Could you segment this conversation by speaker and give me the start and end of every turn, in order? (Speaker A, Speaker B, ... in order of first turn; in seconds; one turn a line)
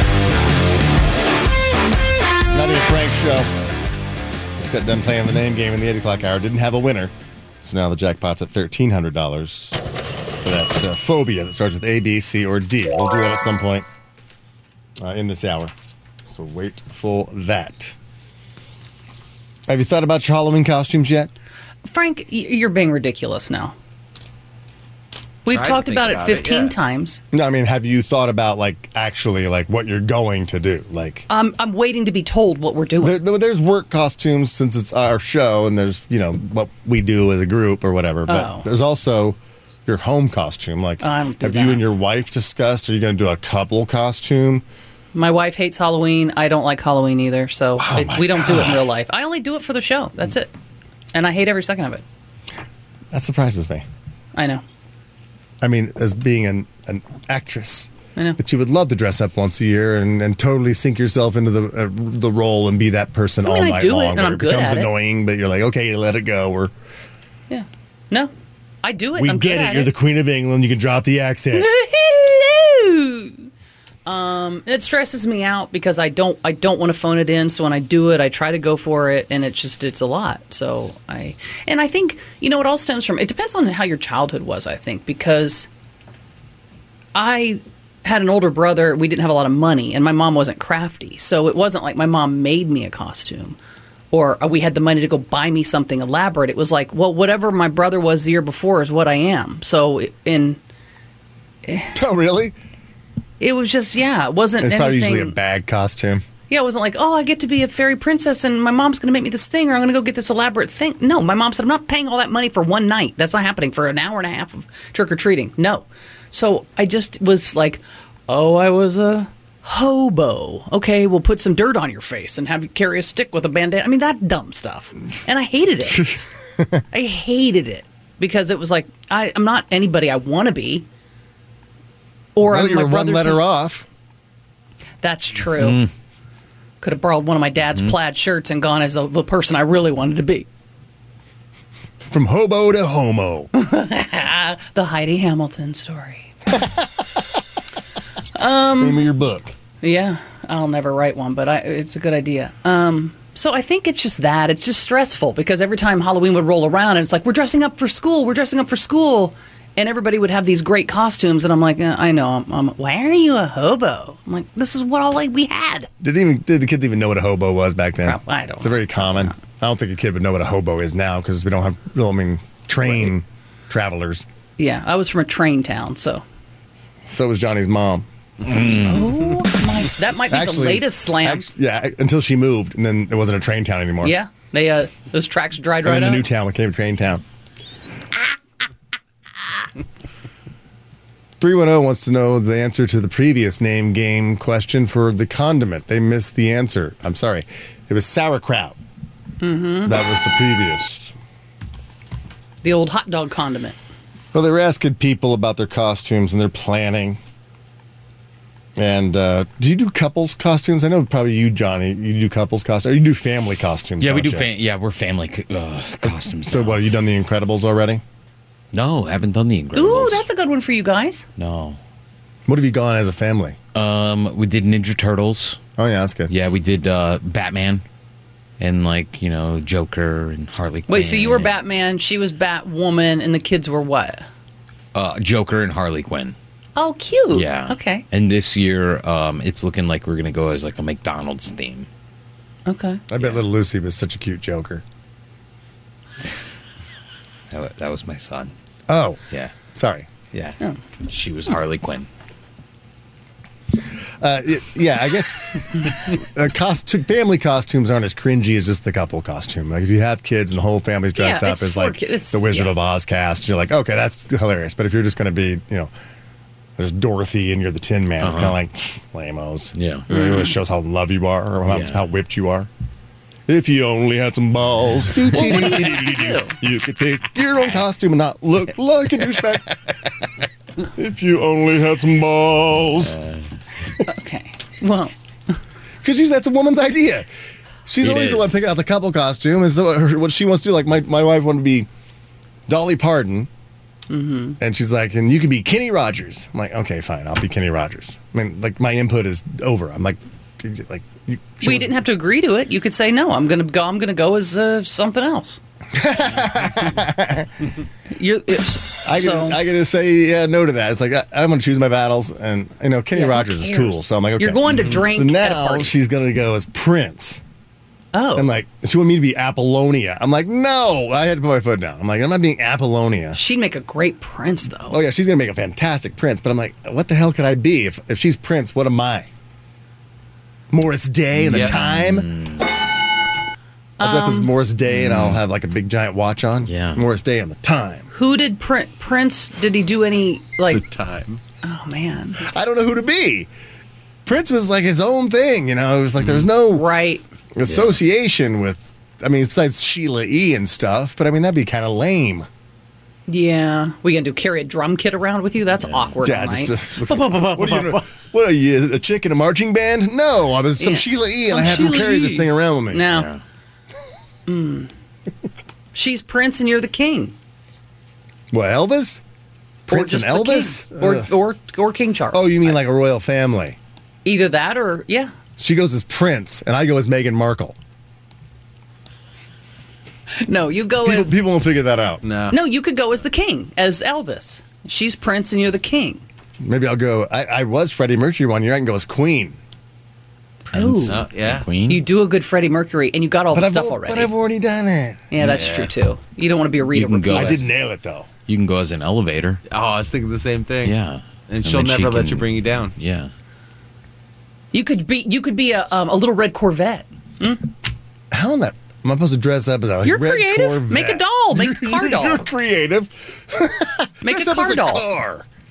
Speaker A: 2.5-3.5
Speaker A: 4.6-9.8
Speaker A: 10.4-13.9
Speaker A: 15.0-15.7
Speaker A: 16.3-17.9
Speaker A: 19.7-21.3
Speaker B: 21.9-23.7
Speaker B: 25.4-27.2
Speaker C: 25.5-26.8
Speaker A: 27.3-31.3
Speaker B: 31.3-33.2
Speaker A: 33.0-44.6
Speaker B: 38.3-38.7
Speaker B: 41.0-41.8
Speaker B: 45.1-50.5
Speaker A: 47.8-48.9
Speaker B: 51.1-52.0
Speaker A: 53.1-53.9
Speaker B: 54.4-54.6
Speaker A: 55.6-66.7
Speaker B: 63.4-64.9
Speaker B: 67.5-68.3
Speaker B: 68.8-69.9
Speaker A: 69.2-71.7
Speaker B: 71.5-73.5
Speaker B: 74.1-85.7
Speaker B: 87.2-93.6
Speaker B: 94.1-100.6
Speaker B: 101.7-101.9
Speaker A: 101.9-102.5
Speaker B: 103.4-105.4
Speaker A: 104.6-106.2
Speaker B: 106.5-126.2
Speaker A: 125.9-126.8
Speaker B: 126.9-130.9
Speaker B: 132.3-133.4
Speaker A: 132.4-133.9
Speaker B: 135.0-135.8
Speaker D: 135.5-135.9
Speaker B: 136.8-140.5
Speaker A: 142.1-143.5
Speaker B: 143.5-146.3
Speaker A: 146.5-147.2
Speaker B: 148.4-149.0
Speaker A: 148.8-149.5
Speaker B: 149.8-165.9
Speaker A: 166.0-174.3
Speaker B: 168.0-169.4
Speaker B: 174.6-176.2
Speaker A: 177.1-178.1
Speaker D: 178.4-179.2
Speaker B: 178.8-181.5
Speaker A: 180.3-184.2
Speaker B: 184.0-186.2
Speaker A: 185.8-187.2
Speaker A: 191.4-198.8
Speaker B: 199.4-199.9
Speaker A: 199.8-201.1
Speaker B: 202.6-203.8
Speaker A: 204.3-207.2
Speaker A: 208.8-214.5
Speaker D: 214.0-216.8
Speaker A: 216.1-218.0
Speaker D: 218.7-220.2
Speaker B: 219.8-221.3
Speaker D: 221.4-221.8
Speaker A: 222.5-223.6
Speaker D: 223.7-225.6
Speaker A: 225.8-226.3
Speaker D: 226.3-227.8
Speaker D: 228.6-231.6
Speaker B: 230.9-234.3
Speaker D: 234.9-236.4
Speaker B: 236.8-238.1
Speaker D: 237.3-241.9
Speaker B: 242.7-243.0
Speaker A: 243.1-244.8
Speaker D: 247.5-248.5
Speaker A: 248.9-249.2
Speaker A: 249.7-250.1
Speaker D: 250.3-252.1
Speaker A: 254.2-265.9
Speaker B: 261.1-262.7
Speaker A: 266.8-272.7
Speaker D: 268.2-268.6
Speaker D: 269.8-270.1
Speaker B: 270.1-270.5
Speaker D: 271.7-272.0
Speaker A: 273.5-279.8
Speaker B: 275.3-276.6
Speaker A: 280.9-283.2
Speaker D: 283.0-283.5
Speaker B: 284.1-285.1
Speaker A: 286.0-287.3
Speaker A: 287.9-291.9
Speaker D: 288.0-288.6
Speaker A: 292.7-293.5
Speaker B: 294.1-294.6
Speaker A: 294.6-301.9
Speaker B: 301.6-305.6
Speaker A: 305.9-307.5
Speaker B: 308.1-309.6
Speaker A: 309.0-317.4
Speaker B: 313.1-315.9
Speaker B: 318.1-318.5
Speaker A: 318.4-323.4
Speaker B: 323.3-325.0
Speaker A: 324.9-329.3
Speaker A: 330.7-332.3
Speaker D: 331.4-332.7
Speaker C: 331.5-331.8
Speaker B: 334.0-334.5
Speaker A: 334.0-338.1
Speaker D: 334.9-335.4
Speaker D: 336.7-337.0
Speaker B: 338.1-340.8
Speaker C: 340.7-341.4
Speaker B: 341.6-342.5
Speaker A: 342.4-343.5
Speaker A: 344.2-346.9
Speaker B: 346.7-347.2
Speaker A: 347.6-352.5
Speaker D: 347.7-348.0
Speaker B: 353.3-358.0
Speaker A: 356.2-363.1
Speaker B: 360.8-363.3
Speaker D: 363.1-363.4
Speaker B: 364.5-364.9
Speaker B: 365.9-367.4
Speaker A: 368.5-369.2
Speaker A: 369.9-371.3
Speaker B: 369.9-372.8
Speaker A: 372.3-373.8
Speaker B: 374.2-375.3
Speaker A: 375.6-377.8
Speaker B: 380.4-381.4
Speaker A: 381.0-382.2
Speaker C: 382.2-382.6
Speaker B: 382.5-386.2
Speaker A: 386.6-389.6
Speaker B: 390.7-391.2
Speaker D: 390.7-392.1
Speaker C: 391.1-391.7
Speaker B: 391.9-394.3
Speaker A: 393.5-395.3
Speaker B: 395.3-397.6
Speaker D: 395.4-395.9
Speaker C: 395.6-395.9
Speaker D: 396.9-397.6
Speaker A: 397.3-398.3
Speaker D: 398.5-399.6
Speaker C: 399.7-401.0
Speaker D: 400.8-403.3
Speaker C: 401.5-402.9
Speaker B: 404.7-407.6
Speaker A: 408.3-415.5
Speaker B: 410.0-412.4
Speaker B: 414.2-415.1